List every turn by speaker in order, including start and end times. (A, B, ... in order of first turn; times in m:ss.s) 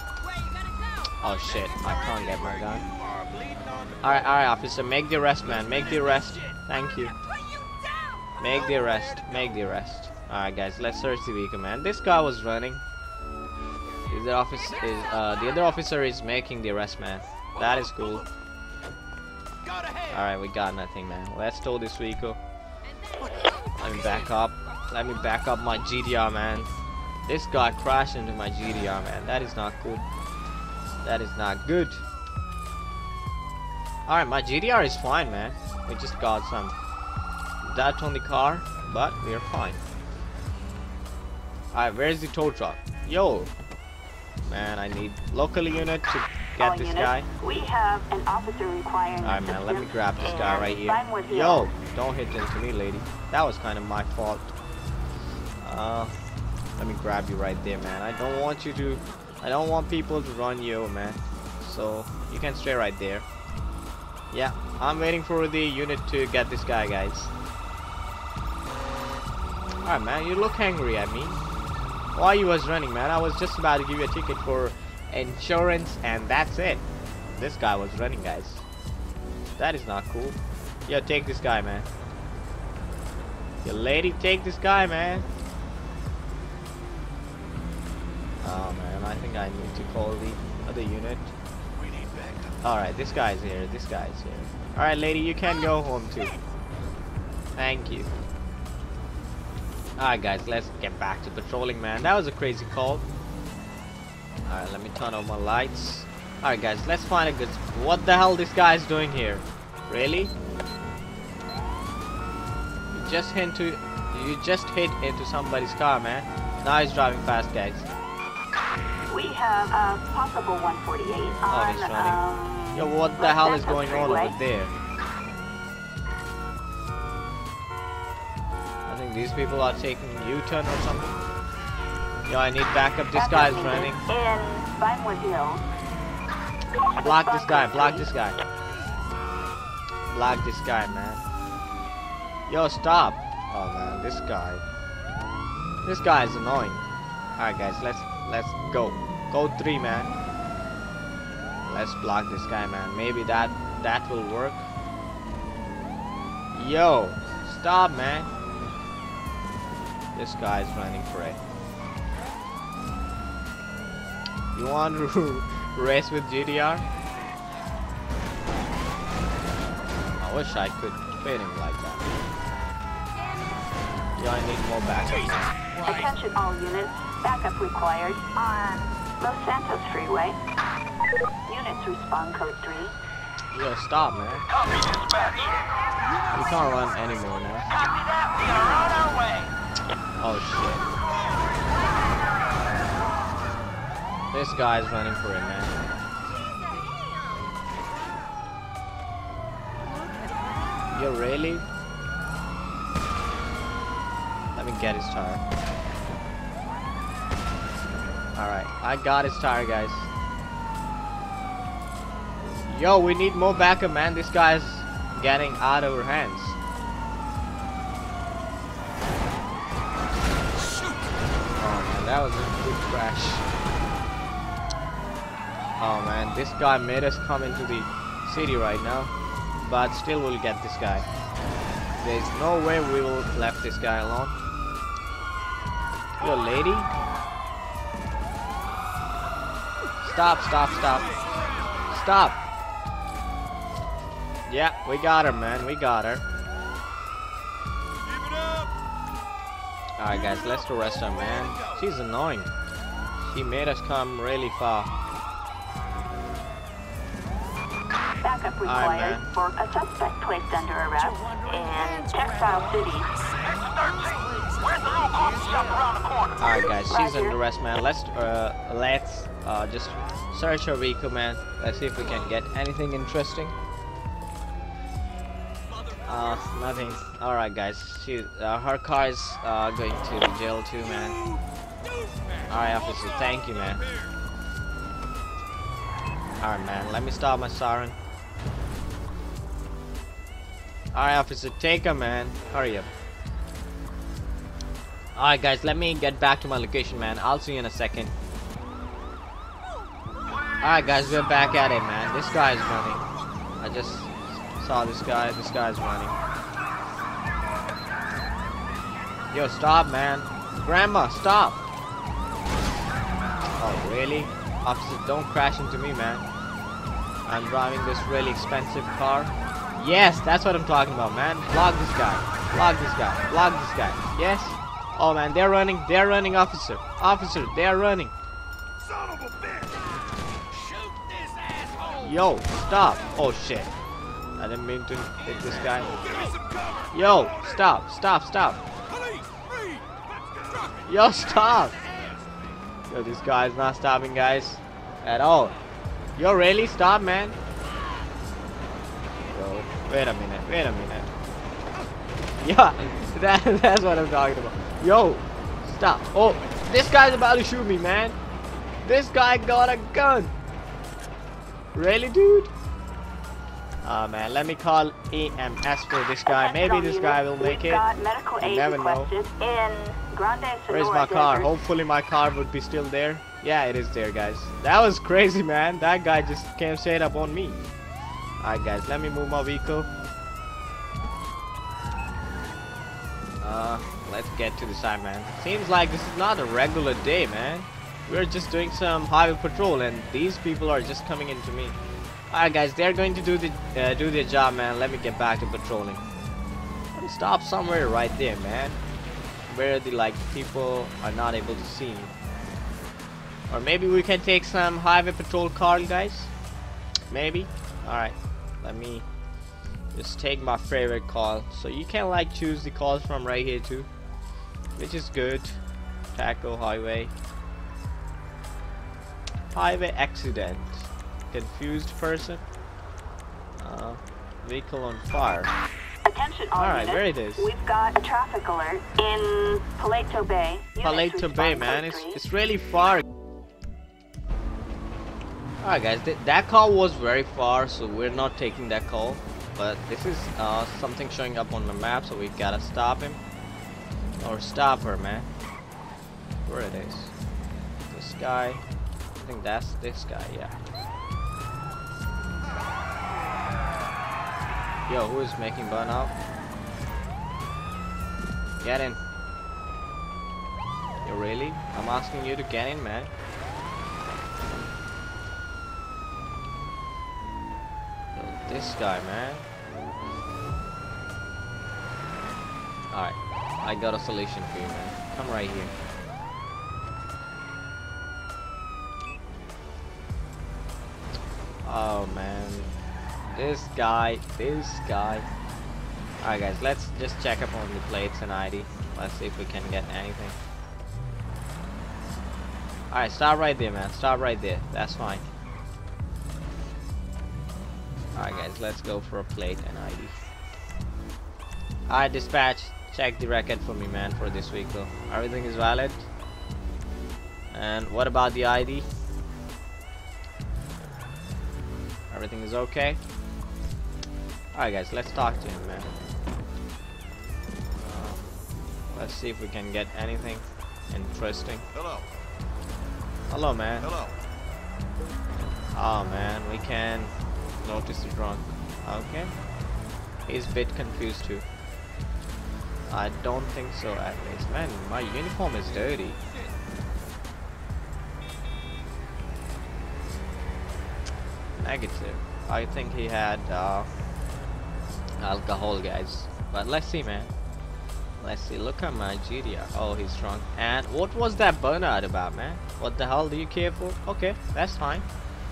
0:00.9-0:04.3 A
0:01.2-0:02.9 B
0:04.0-0:07.1 B
0:05.5-0:06.6 A
0:07.2-0:09.6 A
0:08.4-0:12.8 B
0:14.1-0:18.2 B
0:17.6-0:18.3 A
0:19.6-0:20.2 A
0:20.1-0:22.4 B
0:23.2-0:23.7 A
0:23.8-0:26.7 B
0:27.2-0:30.1 B
0:31.0-0:32.0 B
0:34.1-0:36.8 B
0:37.6-0:39.8 B
0:41.7-0:43.5 B
0:44.5-0:47.3 B
0:46.6-0:51.7 C
0:49.2-0:54.5 B
0:55.6-0:56.2 B
0:56.8-1:03.3 B
1:04.3-1:07.3 B
1:09.8-1:11.4 B
1:12.2-1:16.8 B
1:17.4-1:18.7 B
1:19.6-1:21.9 B
1:23.6-1:25.3 B
1:28.4-1:31.3 B
1:31.8-1:32.6 A
1:32.6-1:36.4 B
1:37.6-1:38.1 B
1:40.0-1:43.0 B
1:44.5-1:50.3 B
1:52.9-1:57.9 B
1:59.1-2:04.4 C
2:01.5-2:04.7 B
2:08.9-2:11.2 B
2:12.3-2:14.0 B
2:13.1-2:15.7 C
2:17.0-2:18.1 C
2:17.0-2:18.4 B
2:20.1-2:21.2 B
2:22.5-2:24.6 B
2:25.8-2:26.8 B
2:27.4-2:30.1 B
2:31.6-2:34.7 B
2:36.5-2:38.3 B
2:40.2-2:41.4 B
2:44.5-2:46.8 B
2:50.2-2:52.2 B
2:54.2-2:55.6 B
2:55.7-2:56.1 A
2:55.8-3:00.4 C
3:01.5-3:02.9 C
3:03.5-3:04.5 B
3:06.0-3:07.1 A
3:06.3-3:07.7 B
3:10.2-3:10.9 B
3:14.3-3:15.8 B
3:20.9-3:21.7 B
3:24.6-3:25.4 B
3:28.4-3:30.1 B
3:32.6-3:36.6 B
3:41.6-3:43.5 B
3:45.8-3:51.1 B
3:52.0-3:54.4 B
3:56.2-3:56.9 B
4:00.0-4:01.2 B
4:01.9-4:02.4 B
4:04.5-4:06.3 B
4:08.2-4:08.7 A
4:10.0-4:12.5 B
4:13.2-4:14.9 B
4:18.2-4:23.1 C
4:18.6-4:19.3 B
4:21.1-4:26.3 A
4:26.4-4:33.6 B
4:26.9-4:27.4 C
4:35.8-4:36.4 A
4:36.0-4:41.2 B
4:41.9-4:44.1 A
4:42.5-4:43.8 B
4:46.4-4:48.0 B
4:50.9-4:52.9 B
4:55.2-4:58.1 B
5:00.6-5:03.1 B
5:03.6-5:06.2 B
5:09.3-5:11.6 B
5:13.6-5:16.3 B
5:17.3-5:28.1 B
5:28.8-5:29.8 A
5:30.5-5:32.1 A
5:32.0-5:33.7 B
5:34.4-5:36.0 B
5:36.0-5:37.6 A
5:36.9-5:38.6 B
5:38.9-5:42.2 A
5:40.9-5:41.8 B
5:42.9-5:45.6 B
5:46.2-5:47.4 B
5:49.3-5:51.1 B
5:52.4-5:58.2 B
5:58.8-6:00.4 B
6:01.7-6:02.5 B
6:03.8-6:07.8 B
6:06.3-6:11.5 C
6:08.4-6:09.1 B
6:10.7-6:17.6 B
6:18.4-6:19.9 B
6:23.4-6:31.8 B
6:32.3-6:36.0 B
6:37.0-6:38.8 B
6:39.5-6:42.1 B
6:43.5-6:46.3 B
6:47.1-6:49.1 B
6:49.9-6:53.9 B
6:54.8-6:55.6 B
6:56.1-6:57.1 B
6:59.5-7:02.4 B
7:03.6-7:05.5 B
7:06.0-7:12.2 C
7:06.6-7:07.5 B
7:10.8-7:13.0 B
7:15.6-7:23.2 B
7:24.2-7:25.3 B
7:26.5-7:27.1 B
7:27.9-7:28.6 B
7:29.2-7:30.6 B
7:34.9-7:36.2 B
7:38.6-7:39.0 B
7:41.0-7:43.1 B
7:48.2-7:49.5 B
7:52.9-7:55.8 B
8:01.6-8:02.7 B
8:03.3-8:05.3 B
8:06.2-8:10.4 B
8:12.9-8:15.2 B
8:18.2-8:20.2 B
8:21.9-8:26.1 B
8:27.5-8:28.9 B
8:32.1-8:33.0 B
8:34.5-8:35.9 B
8:37.8-8:38.2 B
8:38.9-8:41.7 B
8:43.3-8:43.9 B
8:45.7-8:49.3 B
8:50.3-8:51.5 B
8:52.9-8:56.2 B
9:01.6-9:03.9 B
9:05.2-9:07.3 B
9:08.2-9:15.1 B